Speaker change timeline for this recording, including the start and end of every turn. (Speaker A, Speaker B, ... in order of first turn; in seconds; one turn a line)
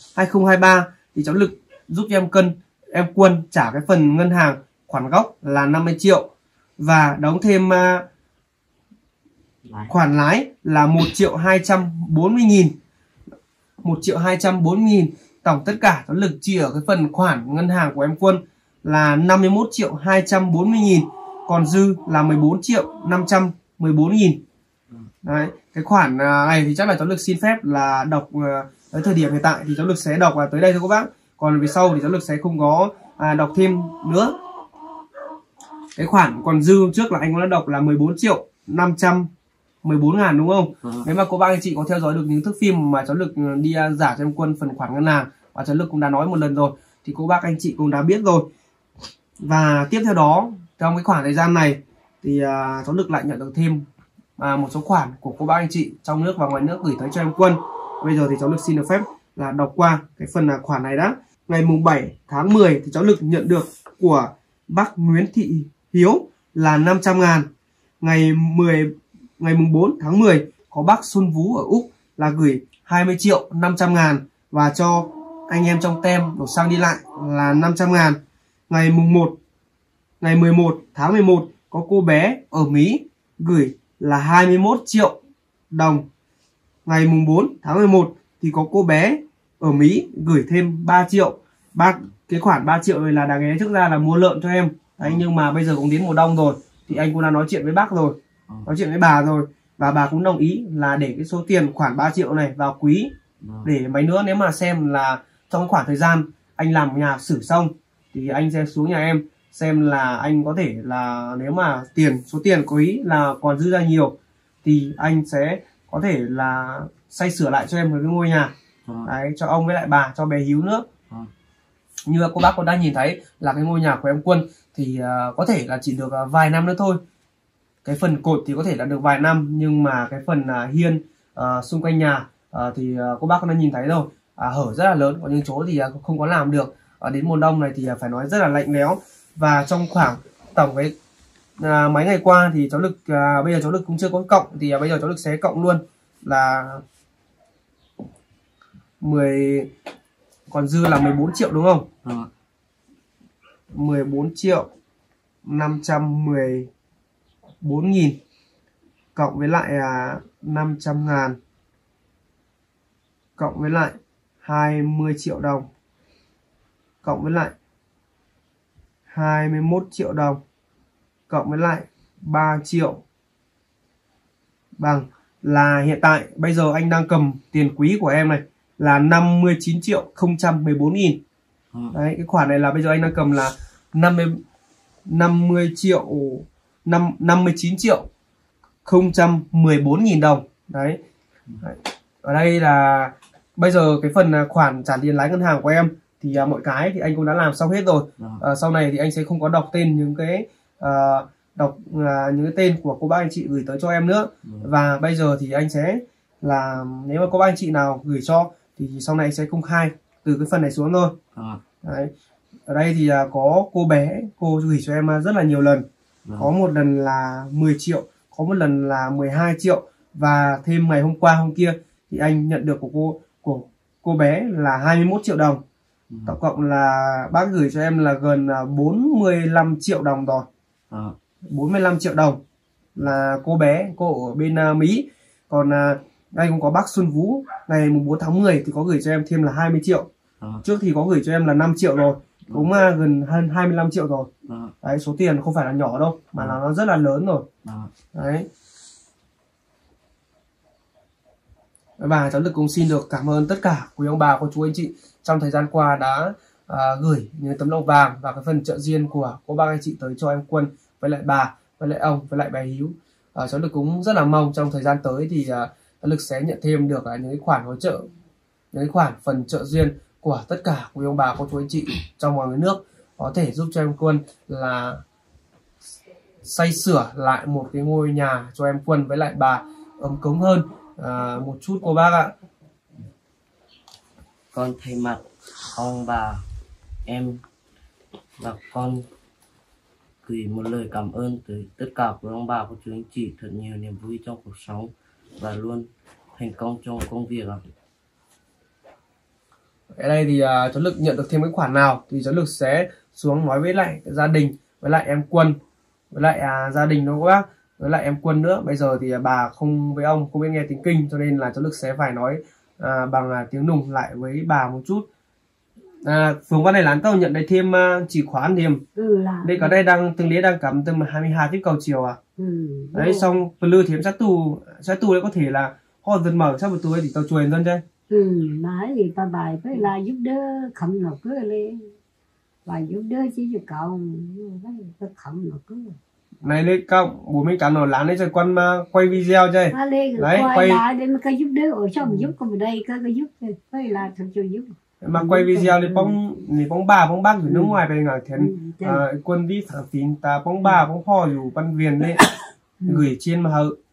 Speaker A: 0.2-6.3
Speaker A: 6.8-8.1
Speaker B: 9.7-9.9
Speaker A: 9.9-12.8
Speaker A: 13.8-24.4
Speaker A: 25.2-34.4
Speaker A: 36.0-39.3
Speaker A: 39.8-48.5
Speaker B: 40.8-41.1
Speaker A: 49.4-53.9
Speaker A: 54.4-67.5
Speaker A: 68.0-79.4
Speaker A: 80.2-85.2
Speaker A: 85.7-86.1
Speaker A: 86.8-103.1
Speaker B: 103.4-103.7
Speaker A: 103.6-118.5
Speaker B: 118.8-119.1
Speaker A: 119.0-120.9
Speaker A: 122.1-127.0
Speaker A: 127.8-140.9
Speaker A: 141.6-146.8
Speaker A: 149.0-149.7
Speaker A: 150.5-151.9
Speaker B: 152.0-152.3
Speaker A: 153.7-154.7
Speaker A: 155.4-156.7
Speaker A: 157.6-158.2
Speaker A: 159.2-161.4
Speaker A: 163.4-165.7
Speaker A: 167.0-167.5
Speaker A: 169.1-170.4
Speaker A: 171.3-173.0
Speaker A: 174.8-181.2
Speaker A: 181.9-184.4
Speaker A: 185.1-188.1
Speaker A: 188.8-191.0
Speaker A: 191.6-211.2
Speaker B: 198.2-198.4
Speaker B: 204.4-204.7
Speaker B: 211.3-211.6
Speaker A: 211.8-212.1
Speaker A: 212.7-215.9
Speaker B: 216.2-216.5
Speaker A: 216.4-225.6
Speaker B: 226.1-226.3
Speaker A: 226.3-230.5
Speaker B: 230.9-231.2
Speaker A: 231.5-232.4
Speaker A: 233.0-240.1
Speaker B: 240.4-240.6
Speaker A: 240.6-244.3
Speaker B: 244.4-244.7
Speaker A: 244.8-247.5
Speaker B: 247.6-247.9
Speaker A: 248.1-248.5
Speaker A: 252.0-268.1
Speaker A: 268.7-275.0
Speaker A: 276.4-282.3
Speaker B: 284.5-286.4
Speaker B: 287.1-287.4
Speaker B: 288.4-289.1
Speaker B: 290.2-297.6
Speaker A: 299.9-305.6
Speaker A: 306.1-315.1
Speaker A: 316.1-318.8
Speaker C: 319.0-319.8
Speaker A: 319.4-322.2
Speaker C: 322.4-323.2
Speaker A: 322.9-327.8
Speaker C: 328.1-331.9
Speaker C: 332.7-336.0
Speaker A: 336.4-340.8
Speaker C: 339.7-346.2
Speaker A: 342.0-342.3
Speaker A: 345.0-352.2
Speaker C: 347.5-347.8
Speaker C: 348.4-349.0
Speaker C: 352.8-353.1
Speaker A: 352.9-353.8